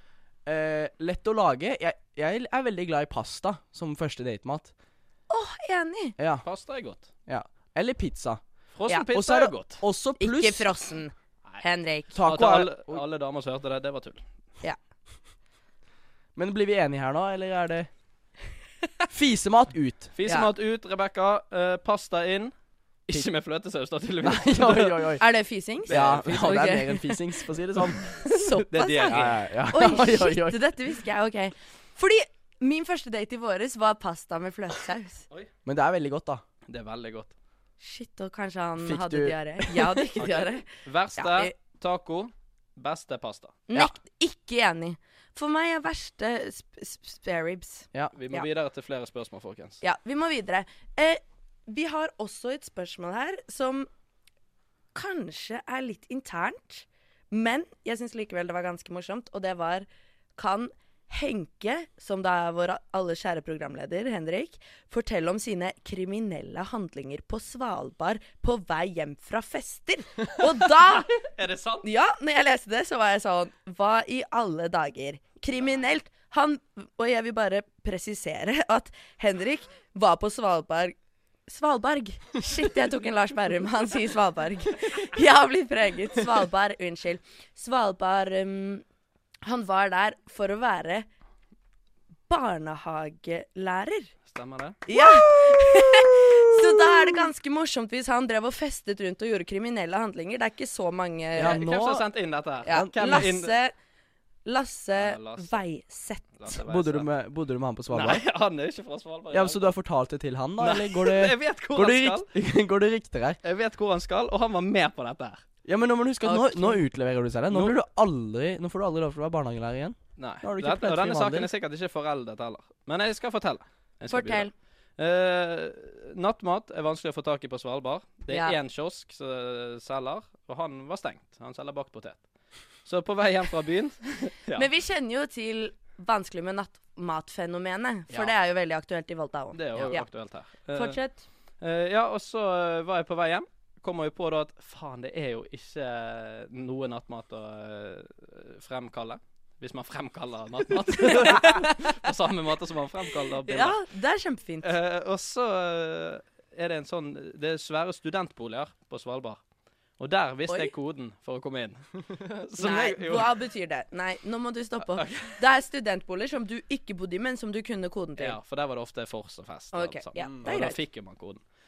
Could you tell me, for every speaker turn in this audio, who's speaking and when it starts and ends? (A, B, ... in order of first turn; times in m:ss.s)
0:00.5-0:04.7 A
0:05.3-0:06.2 B
0:06.2-0:06.5 A
0:06.4-0:07.1 C
0:07.3-0:08.4 A
0:08.7-0:09.8 C
0:09.1-0:10.7 A
0:10.2-0:12.2 B
0:12.2-0:13.0 A
0:12.2-0:14.2 C
0:16.4-0:17.9 A
0:19.1-0:20.1 A
0:20.2-0:22.5 C
0:23.1-0:25.2 C
0:24.2-0:25.2 A
0:25.2-0:27.4 B
0:25.9-0:26.8 C
0:25.9-0:28.0 A
0:28.1-0:35.3 B
0:28.3-0:29.4 C
0:29.1-0:30.6 A
0:35.6-0:36.4 A
0:36.7-0:37.3 C
0:37.8-0:41.5 B
0:38.8-0:40.1 A
0:40.2-0:43.6 C
0:43.7-0:48.4 B
0:48.2-0:49.8 C
0:49.8-0:53.9 B
0:54.9-1:11.2 B
1:11.2-1:11.9 C
1:11.8-1:21.0 B
1:21.5-1:28.8 B
1:29.4-1:31.1 B
1:32.3-1:34.1 B
1:34.3-1:34.8 C
1:34.9-1:41.6 B
1:34.9-1:37.2 A
1:41.4-1:42.1 A
1:41.4-1:43.6 C
1:42.7-1:43.8 B
1:42.7-1:43.3 A
1:44.4-1:46.3 B
1:44.9-1:45.6 C
1:46.4-1:47.1 C
1:46.5-1:48.2 A
1:47.9-1:49.7 C
1:49.3-1:53.4 A
1:50.6-1:52.3 C
1:53.4-1:55.4 C
1:55.6-2:01.5 A
1:56.2-1:56.8 B
1:57.5-1:57.8 C
2:00.2-2:12.2 C
2:04.1-2:04.5 B
2:08.3-2:08.6 B
2:12.8-2:14.7 C
2:14.6-2:20.1 B
2:19.5-2:21.0 C
2:19.8-2:20.0 A
2:20.7-2:21.2 B
2:21.6-2:33.8 C
2:31.0-2:31.9 B
2:33.4-2:34.7 B
2:34.6-2:39.4 C
2:40.0-2:43.3 C
2:42.6-2:48.4 B
2:44.9-2:45.4 C
2:48.2-2:51.4 C
2:49.7-2:50.8 B